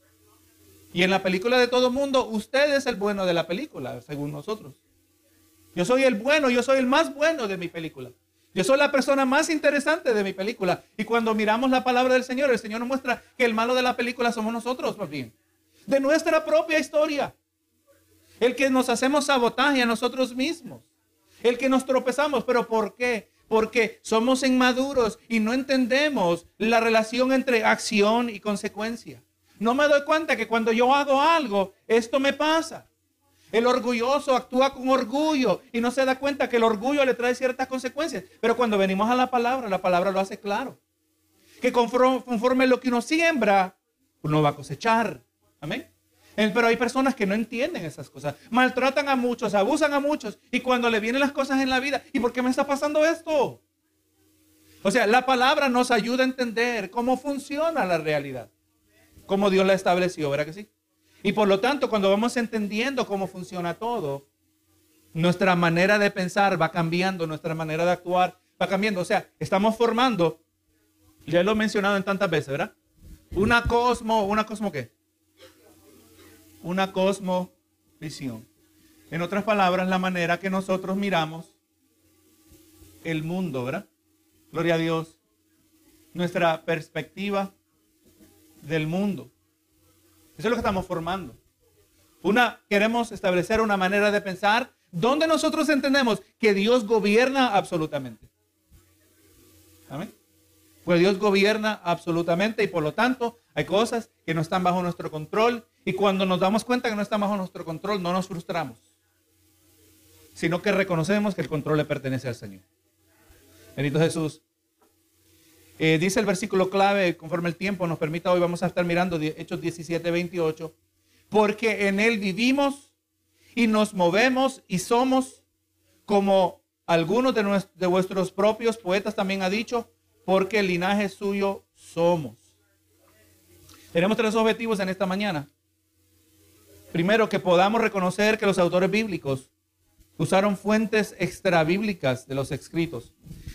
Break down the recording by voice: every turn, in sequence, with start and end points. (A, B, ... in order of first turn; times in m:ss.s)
0:00.9-0:04.8 A
0:05.8-0:15.3 A
0:15.9-0:17.3 A
0:18.4-0:20.8 A
0:21.4-0:32.9 A
0:33.5-0:40.8 A
0:41.6-0:53.6 A
0:54.8-0:58.5 A
0:59.3-1:00.7 A
1:01.2-1:04.2 A
1:05.1-1:10.4 A
1:11.3-1:12.7 A
1:13.3-1:14.9 A
1:16.6-1:18.5 A
1:19.1-1:21.5 A
1:23.0-1:23.9 A
1:24.5-1:25.2 A
1:26.1-1:27.5 A
1:28.6-1:29.3 A
1:30.4-1:31.4 A
1:32.2-1:38.3 A
1:40.8-1:48.8 A
1:50.4-1:52.6 A
1:53.8-1:54.4 A
1:55.8-2:00.7 A
2:01.3-2:02.9 A
2:03.6-2:05.4 A
2:06.1-2:12.4 A
2:13.9-2:15.5 A
2:16.9-2:19.5 A
2:20.2-2:23.1 A